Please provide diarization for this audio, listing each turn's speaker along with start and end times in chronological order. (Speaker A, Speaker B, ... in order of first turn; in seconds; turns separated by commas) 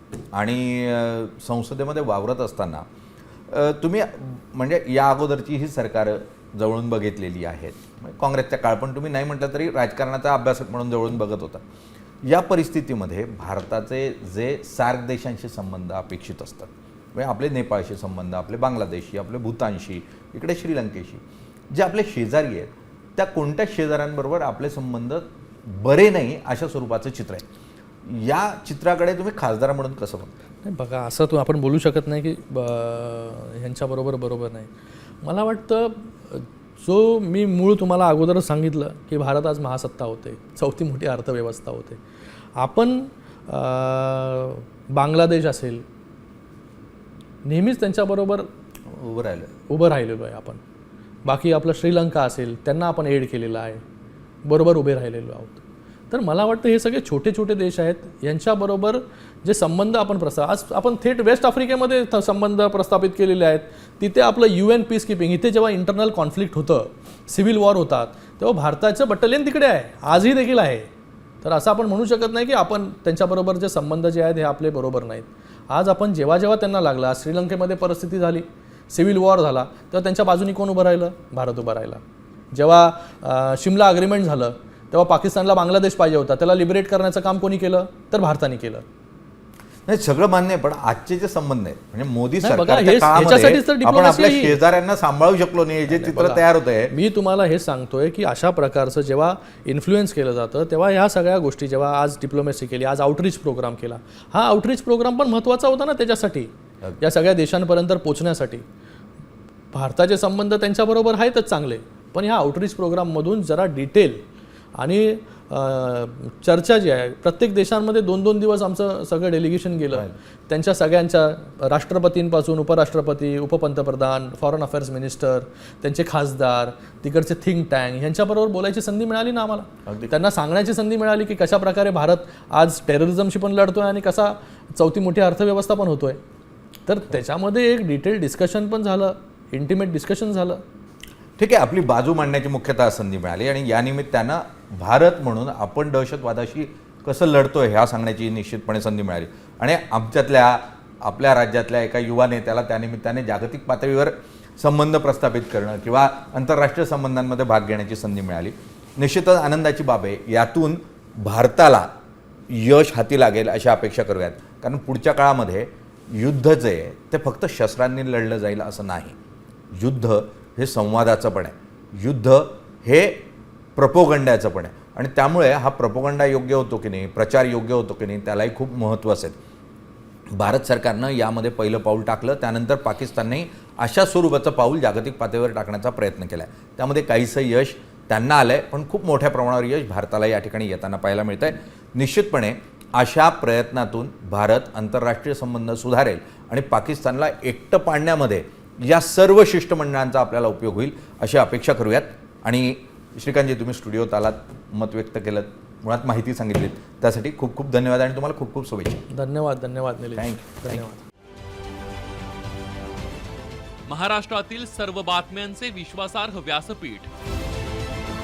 Speaker A: 0.3-2.9, Speaker A: 3.5-11.6, Speaker A: 12.2-27.4, Speaker A: 28.0-30.3, Speaker B: 30.6-34.7, Speaker B: 35.2-42.0, Speaker B: 42.6-45.8, Speaker B: 47.4-48.5, Speaker A: 48.9-49.5, Speaker B: 49.7-50.6, Speaker B: 51.2-53.8, Speaker B: 54.4-55.6, Speaker B: 56.1-70.9, Speaker B: 71.4-88.8, Speaker A: 89.9-96.9, Speaker B: 92.4-94.6, Speaker B: 95.9-108.6, Speaker B: 109.7-114.2, Speaker B: 114.8-136.2, Speaker A: 129.8-130.1, Speaker B: 136.8-140.6, Speaker A: 141.4-161.9, Speaker A: 162.5-169.2, Speaker A: 169.7-173.2, Speaker A: 173.8-179.3, Speaker A: 180.3-209.0, Speaker B: 209.1-211.0, Speaker A: 210.2-210.8, Speaker C: 213.9-217.1